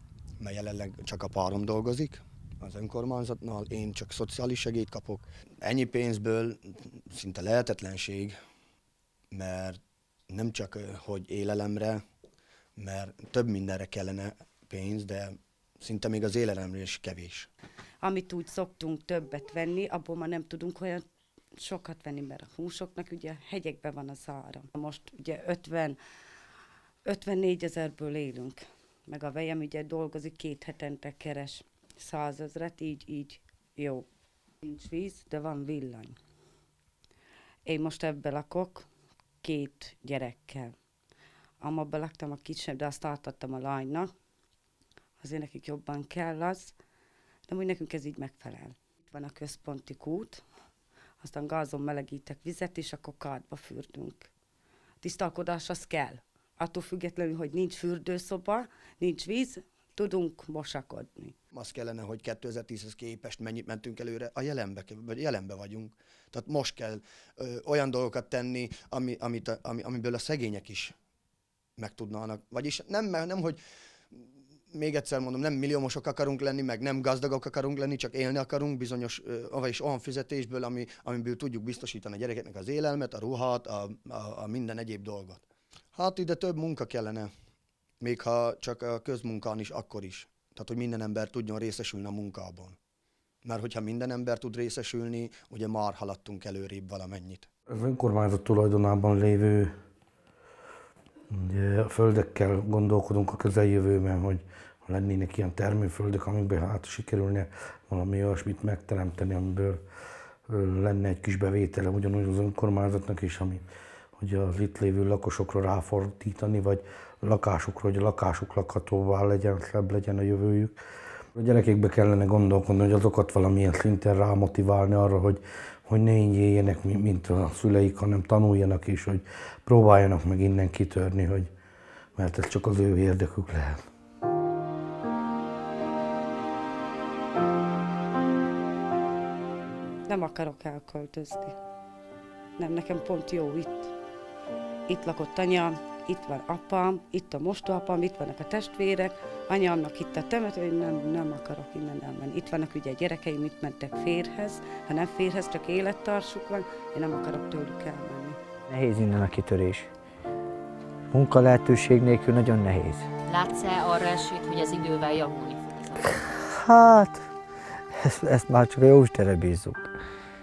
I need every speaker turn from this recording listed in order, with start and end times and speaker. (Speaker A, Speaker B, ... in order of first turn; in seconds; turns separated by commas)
Speaker A: 0.4-8.3, Speaker A: 9.3-9.8, Speaker A: 10.3-12.0, Speaker A: 12.8-17.5, Speaker B: 18.0-26.0, Speaker B: 27.1-34.1, Speaker B: 34.6-36.2, Speaker B: 37.7-38.9, Speaker B: 39.4-40.7, Speaker B: 41.6-44.1, Speaker B: 45.2-46.8, Speaker B: 47.5-50.4, Speaker B: 51.2-54.3, Speaker B: 55.0-61.4, Speaker A: 61.5-70.9, Speaker A: 71.8-73.6, Speaker A: 74.7-85.4, Speaker A: 85.9-87.3, Speaker A: 88.0-92.8, Speaker A: 93.4-97.5, Speaker C: 97.7-99.7, Speaker C: 101.3-109.8, Speaker C: 110.5-113.6, Speaker C: 114.2-120.7, Speaker C: 121.3-131.5, Speaker C: 132.2-133.8, Speaker B: 140.1-141.6, Speaker B: 142.6-143.9, Speaker B: 144.9-158.4, Speaker D: 158.7-159.9, Speaker D: 161.1-163.1, Speaker E: 163.3-166.2, Speaker D: 166.3-167.3, Speaker D: 167.9-169.9